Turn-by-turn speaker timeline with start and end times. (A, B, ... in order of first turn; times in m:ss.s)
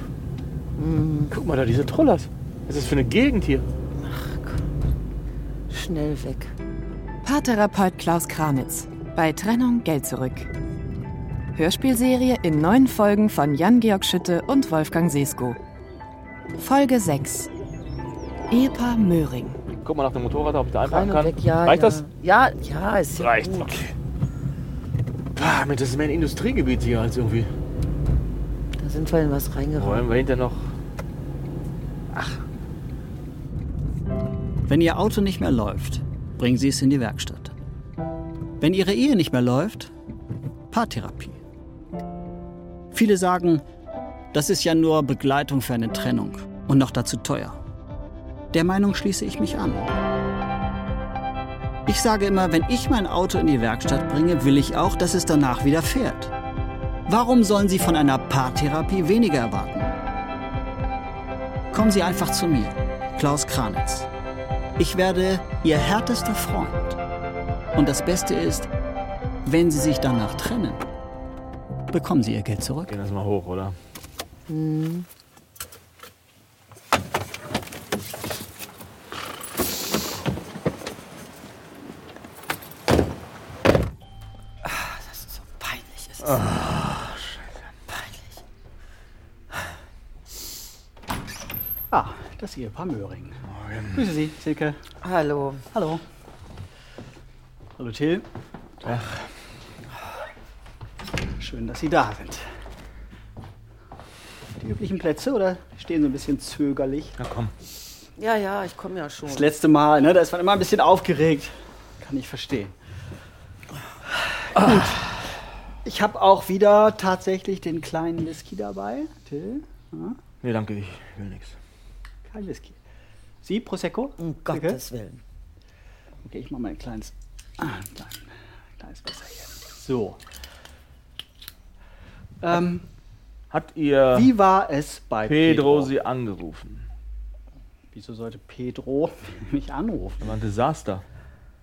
0:00.8-0:01.3 A
0:01.3-0:03.7 B
0:03.9-0:04.6 A
0:05.7-0:06.5 A
0:07.2-0:10.5 C
0:11.6-0:15.6 C
0:16.6-0:17.5 C
0:18.5-0:19.6 C
0:19.8-0:22.0 B
0:20.8-0:23.7 A
0:23.2-0:23.9 B
0:25.4-0:27.5 B
0:28.8-0:30.1 A
0:29.8-0:30.8 B
0:34.7-0:37.5 D
0:38.6-0:39.9 D
0:40.7-0:41.4 D
0:42.9-0:43.6 D
0:44.3-0:47.6 D
0:48.5-0:49.9 D
0:51.9-0:56.3 D
0:57.1-1:00.0 D
1:01.7-1:04.1 D
1:04.8-1:07.0 D
1:07.8-1:08.7 D
1:09.4-1:10.9 D
1:11.9-1:13.0 D
1:12.9-1:13.8 B
1:14.5-1:15.1 A
1:24.6-1:26.5 A
1:26.2-1:27.4 B
1:31.9-1:33.4 D
1:33.5-1:34.0 B
1:33.9-1:34.8 D
1:35.0-1:35.6 A
1:35.7-1:36.0 D
1:37.8-1:38.3 D
1:38.8-1:39.2 B
1:41.4-1:42.4 D
1:44.6-1:47.2 D
1:47.2-1:47.5 B
1:48.2-1:49.5 A
1:49.3-1:52.7 D
1:54.5-1:55.1 D
1:55.8-2:00.2 D
2:00.4-2:01.6 B
2:02.3-2:02.8 D
2:03.4-2:04.8 D
2:04.2-2:05.2 A
2:06.2-2:10.2 D
2:12.4-2:12.9 D
2:13.5-2:14.3 B
2:14.1-2:15.9 D
2:15.2-2:16.8 B
2:17.9-2:20.4 D
2:20.2-2:21.0 B